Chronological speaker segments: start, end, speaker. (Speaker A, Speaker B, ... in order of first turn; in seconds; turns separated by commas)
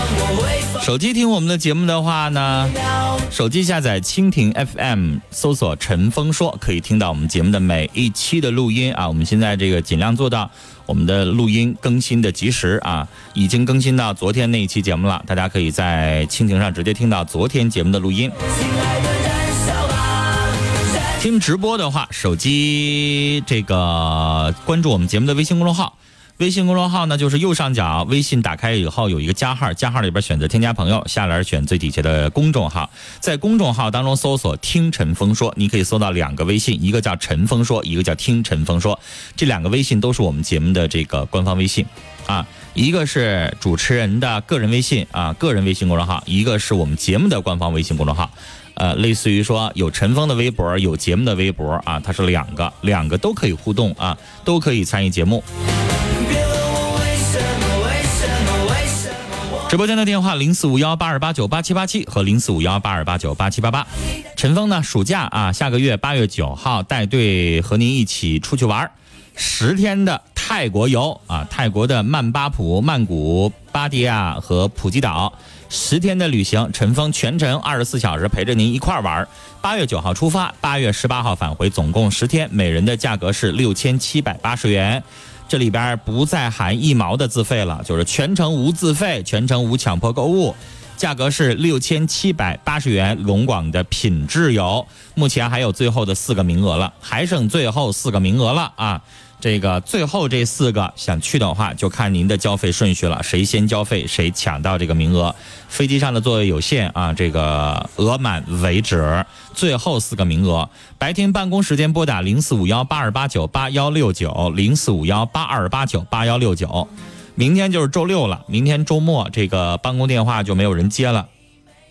Speaker A: 0.8-2.8, Speaker A: 3.3-18.3, Speaker A: 21.2-55.4, Speaker A: 59.7-121.3